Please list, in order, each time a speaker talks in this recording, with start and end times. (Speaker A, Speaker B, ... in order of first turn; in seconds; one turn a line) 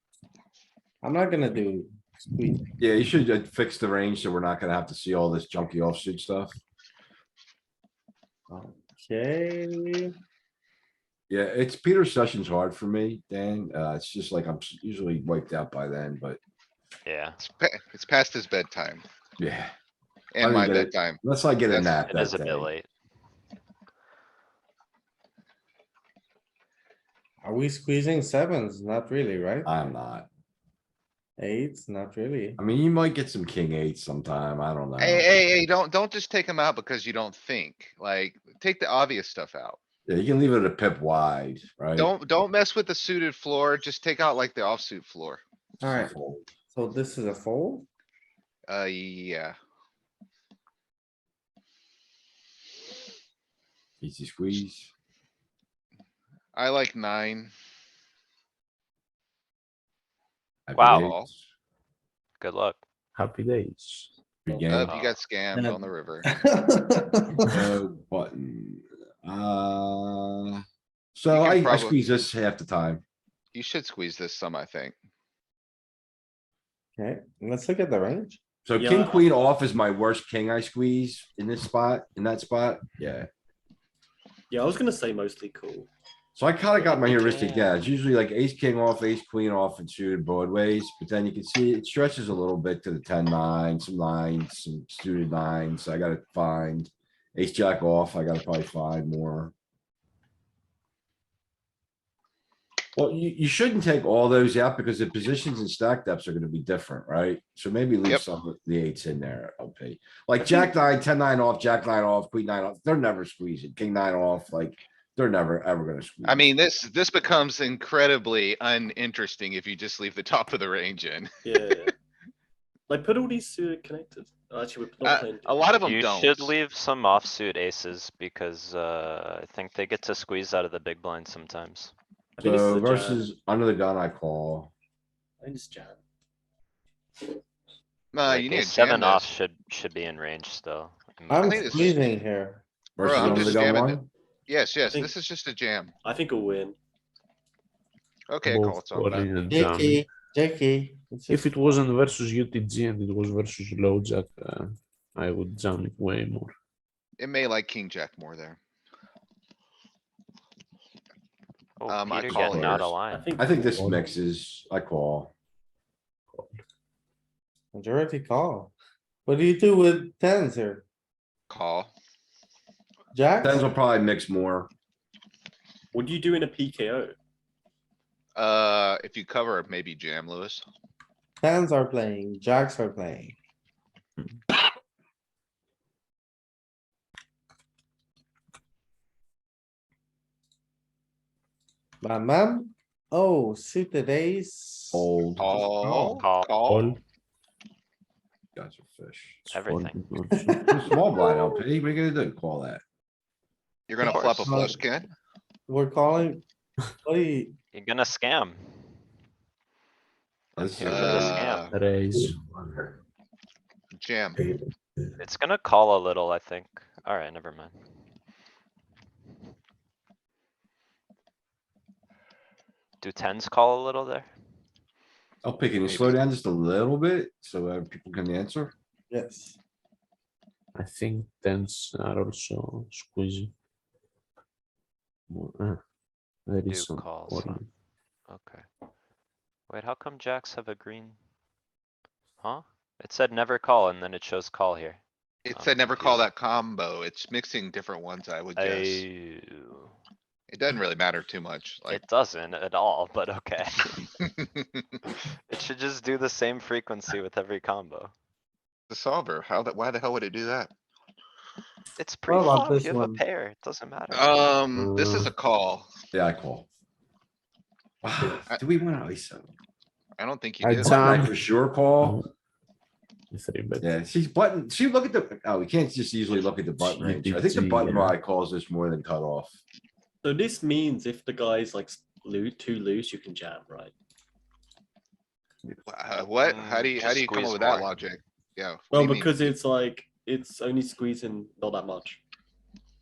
Speaker A: 1.0-2.7
Speaker B: 2.8-6.5
Speaker A: 8.5-10.1
Speaker B: 11.3-16.4
Speaker C: 17.1-17.4
Speaker D: 17.4-19.0
Speaker B: 19.4-19.7
Speaker D: 20.3-22.0
Speaker B: 20.4-22.7
Speaker C: 22.1-22.9
Speaker A: 27.4-29.7
Speaker B: 29.6-30.3
Speaker A: 31.4-32.6
Speaker B: 32.6-35.2
Speaker D: 35.0-39.8
Speaker B: 40.1-42.1
Speaker D: 42.0-45.4
Speaker A: 45.8-46.1
Speaker B: 45.8-46.4
Speaker A: 46.7-47.9
Speaker D: 48.7-49.5
Speaker B: 54.0-54.9
Speaker D: 56.5-57.5
Speaker B: 60.7-61.4
Speaker C: 60.7-61.1
Speaker D: 61.0-61.3
Speaker C: 62.4-62.8
Speaker E: 63.1-64.1
Speaker B: 64.5-64.9
Speaker D: 64.7-66.3
Speaker C: 64.8-65.2
Speaker A: 65.5-67.6
Speaker B: 67.5-70.6
Speaker B: 71.1-73.0
Speaker D: 71.3-72.0
Speaker D: 73.5-74.9
Speaker A: 77.0-78.4
Speaker B: 78.6-83.3
Speaker F: 78.8-79.2
Speaker F: 84.5-85.9
Speaker B: 86.3-99.5
Speaker F: 86.8-87.8
Speaker B: 103.0-116.4
Speaker D: 116.2-121.9
Speaker F: 121.4-121.9
Speaker F: 122.9-125.7
Speaker D: 125.0-126.5
Speaker C: 125.8-131.9
Speaker F: 132.4-133.2
Speaker B: 132.4-134.7
Speaker F: 135.4-136.0
Speaker D: 138.1-139.3
Speaker C: 138.2-142.0
Speaker A: 141.3-144.0
Speaker D: 141.4-141.9
Speaker B: 143.0-144.0
Speaker D: 143.0-145.9
Speaker F: 144.9-145.1
Speaker F: 146.0-146.8
Speaker D: 148.3-149.3
Speaker E: 148.4-150.0
Speaker A: 149.5-151.6
Speaker E: 151.3-156.5
Speaker D: 157.2-158.6
Speaker C: 161.8-163.3
Speaker D: 161.9-163.0
Speaker B: 162.3-165.3
Speaker F: 163.1-163.7
Speaker E: 163.8-164.1
Speaker A: 167.7-168.7
Speaker A: 169.2-170.8
Speaker D: 171.5-171.9
Speaker A: 173.1-173.7
Speaker B: 173.4-174.7
Speaker F: 175.9-177.2
Speaker D: 178.3-180.6
Speaker A: 181.4-183.3
Speaker A: 192.0-195.1
Speaker B: 194.9-195.6
Speaker D: 195.4-197.0
Speaker C: 195.9-196.5
Speaker E: 196.7-197.0
Speaker B: 198.6-199.4
Speaker E: 199.4-200.7
Speaker C: 199.5-200.0
Speaker A: 200.4-201.3
Speaker B: 200.7-202.8
Speaker D: 203.9-205.1
Speaker C: 204.0-204.5
Speaker A: 204.0-204.8
Speaker A: 205.7-206.4
Speaker A: 207.0-207.6
Speaker C: 207.7-208.8
Speaker C: 210.5-211.7
Speaker B: 210.6-211.5
Speaker D: 210.8-211.8
Speaker E: 211.7-212.9
Speaker D: 213.9-214.5
Speaker C: 215.2-217.7
Speaker C: 223.0-224.3
Speaker B: 225.4-228.7
Speaker C: 225.8-226.2
Speaker A: 229.1-229.6
Speaker E: 230.8-233.5
Speaker E: 235.3-235.8
Speaker E: 236.4-237.7
Speaker C: 236.7-237.6
Speaker C: 238.3-238.6
Speaker C: 239.7-241.2
Speaker C: 242.4-245.0
Speaker D: 245.4-249.0
Speaker C: 245.5-246.3
Speaker C: 248.6-249.9
Speaker D: 250.5-252.0
Speaker C: 251.9-254.1
Speaker C: 255.5-258.1
Speaker D: 258.9-260.7
Speaker C: 262.0-264.5
Speaker A: 262.3-263.2
Speaker D: 264.1-265.9
Speaker E: 264.7-265.3
Speaker B: 266.1-266.7
Speaker B: 268.0-269.5
Speaker D: 270.2-270.9
Speaker E: 270.6-271.4
Speaker B: 270.8-272.2
Speaker E: 272.0-272.3
Speaker E: 273.3-273.9
Speaker B: 273.8-279.6
Speaker E: 276.8-278.1
Speaker F: 280.2-283.9
Speaker D: 285.9-289.5
Speaker C: 286.2-287.9
Speaker F: 288.9-292.2